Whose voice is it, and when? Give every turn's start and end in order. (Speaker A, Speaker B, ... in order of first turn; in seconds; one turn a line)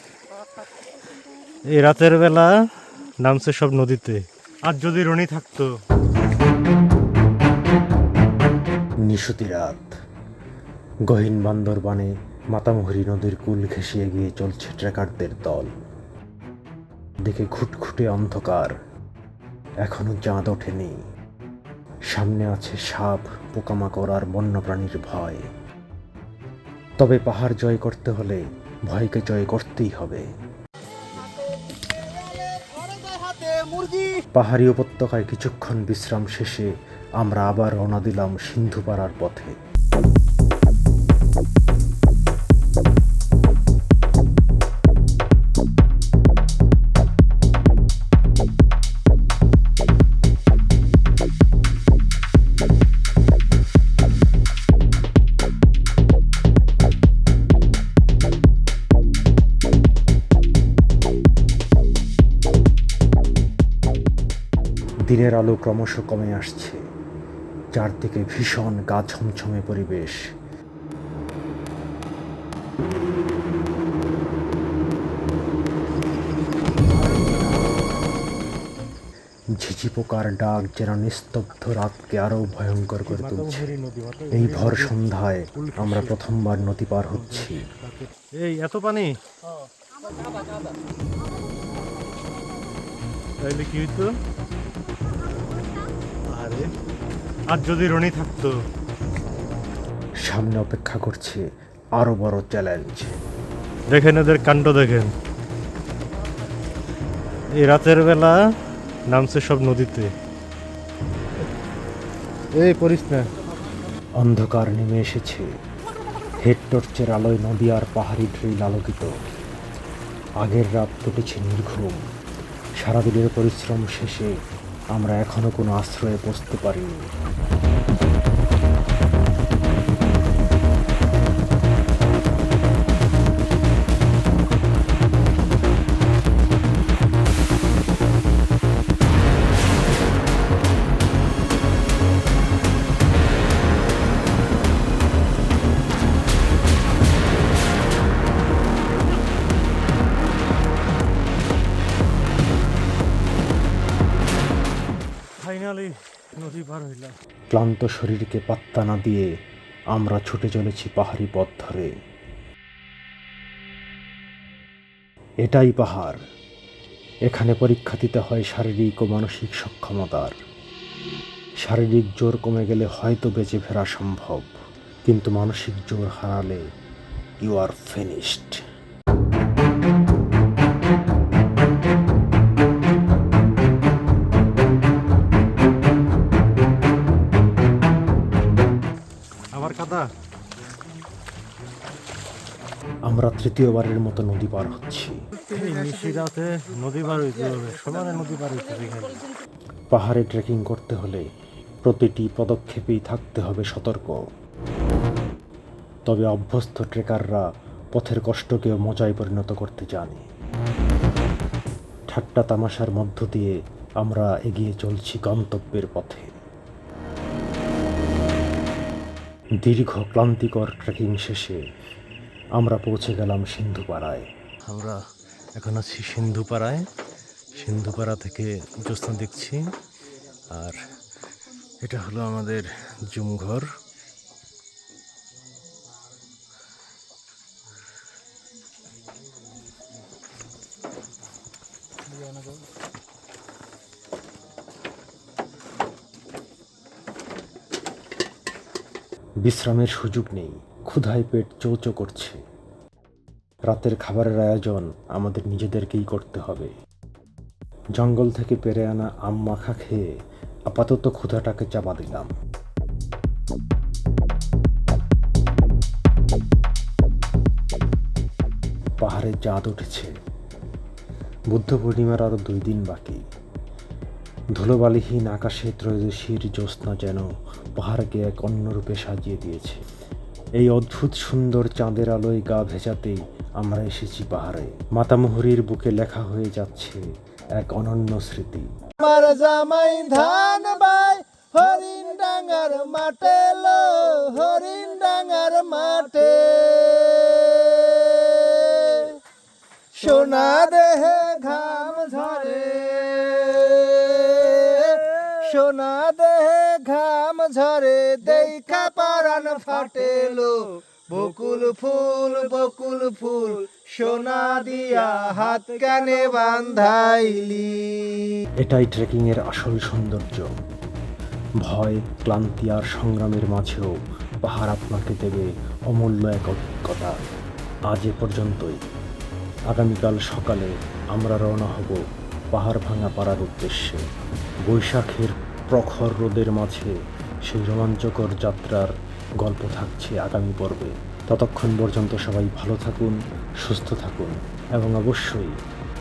Speaker A: 1.7-5.7
Speaker B: 9.1-9.9
Speaker B: 11.1-15.7
Speaker B: 17.2-18.7
Speaker B: 19.8-21.0
Speaker B: 22.1-25.5
Speaker B: 27.0-30.3
Speaker C: 32.3-34.2
Speaker B: 34.3-39.6
Speaker B: 65.1-66.8
Speaker B: 67.8-70.2
Speaker B: 79.6-83.7
Speaker A: 83.0-85.0
Speaker B: 84.3-87.7
Speaker A: 85.5-86.2
Speaker A: 87.1-89.1
Speaker A: 93.4-94.1
Speaker A: 96.3-96.7
Speaker A: 97.5-98.6
Speaker B: 100.2-101.5
Speaker B: 102.0-103.2
Speaker A: 103.9-105.1
Speaker A: 107.6-108.3
Speaker A: 109.1-110.1
Speaker A: 112.6-113.3
Speaker B: 114.2-115.5
Speaker B: 116.4-119.1
Speaker B: 120.4-122.0
Speaker B: 122.8-124.3
Speaker B: 124.9-127.0
Speaker A: 155.4-157.1
Speaker B: 157.5-159.3
Speaker B: 159.9-161.9
Speaker B: 165.4-166.2
Speaker B: 167.3-170.3
Speaker B: 171.6-174.5
Speaker B: 175.1-176.6
Speaker B: 177.4-178.6
Speaker A: 189.5-190.1
Speaker B: 193.1-195.2
Speaker A: 195.4-199.3
Speaker B: 199.9-201.2
Speaker B: 201.8-204.2
Speaker B: 206.1-210.2
Speaker B: 212.1-216.3
Speaker B: 219.6-221.6
Speaker B: 222.6-224.3
Speaker A: 224.7-225.0
Speaker A: 225.6-226.8
Speaker A: 227.6-229.6
Speaker A: 231.8-233.6
Speaker B: 249.4-252.4
Speaker B: 253.7-256.7
Speaker B: 258.0-260.0
Speaker B: 260.7-262.3
Speaker B: 269.0-270.1
Speaker B: 271.5-273.2
Speaker B: 274.6-279.8
Speaker B: 280.6-287.0
Speaker B: 287.6-288.7
Speaker C: 289.0-299.2
Speaker C: 299.9-318.4
Speaker B: 318.6-320.5
Speaker B: 321.6-323.9
Speaker B: 324.4-327.1
Speaker B: 327.9-328.8
Speaker B: 329.7-332.0
Speaker B: 332.5-334.0
Speaker B: 334.7-337.0
Speaker B: 337.5-338.9
Speaker B: 339.4-345.6